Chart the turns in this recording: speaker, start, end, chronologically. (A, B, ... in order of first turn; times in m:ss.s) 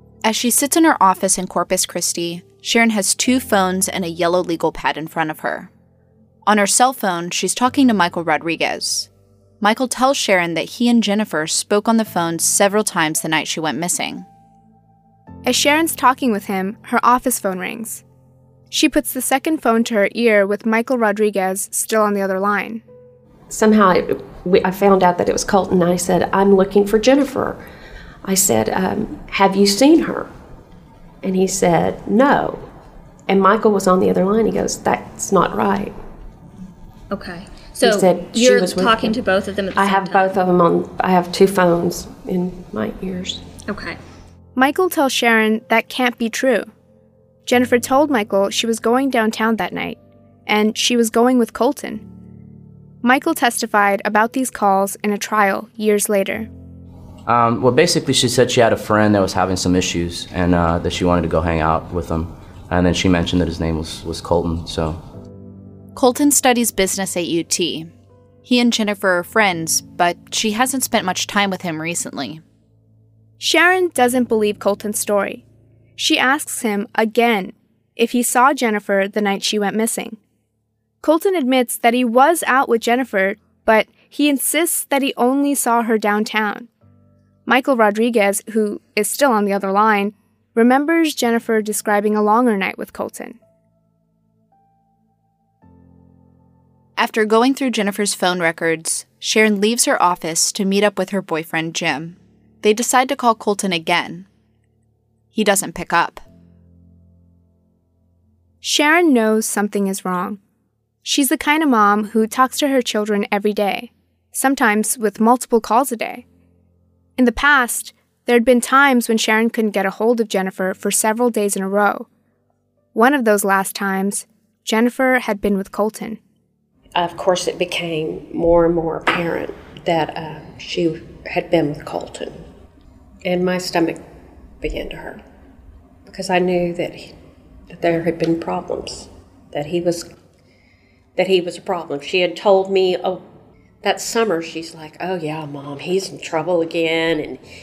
0:00.2-0:05.7 A
0:06.5-0:09.1 A
0:09.6-0:14.3 A
0:15.4-0:18.0 B
0:18.7-0:22.8 B
0:23.5-0:27.6 C
0:28.2-0:30.3 C
0:31.2-0:32.7 C
0:33.3-0:36.0 C
0:37.1-0:40.3 D
0:37.8-0:39.2 C
0:39.8-0:43.4 C
0:43.7-0:44.0 D
0:44.6-0:46.7 B
0:47.5-0:52.0 B
0:53.0-0:56.5 B
0:57.3-1:05.0 E
1:06.0-1:07.9 A
1:08.4-1:12.4 A
1:13.4-1:15.4 B
1:16.0-1:20.2 B
1:21.0-1:26.7 B
1:27.5-1:33.4 B
1:37.0-1:44.3 A
1:45.3-1:46.2 A
1:48.6-1:50.4 B
1:51.0-1:56.2 B
1:57.2-2:02.1 B
2:02.9-2:06.2 B
2:06.9-2:12.4 C
2:13.2-2:14.0 C
2:14.6-2:15.2 C
2:16.1-2:17.2 C
2:17.7-2:20.1 C
2:21.2-2:23.2 C
2:23.8-2:27.4 C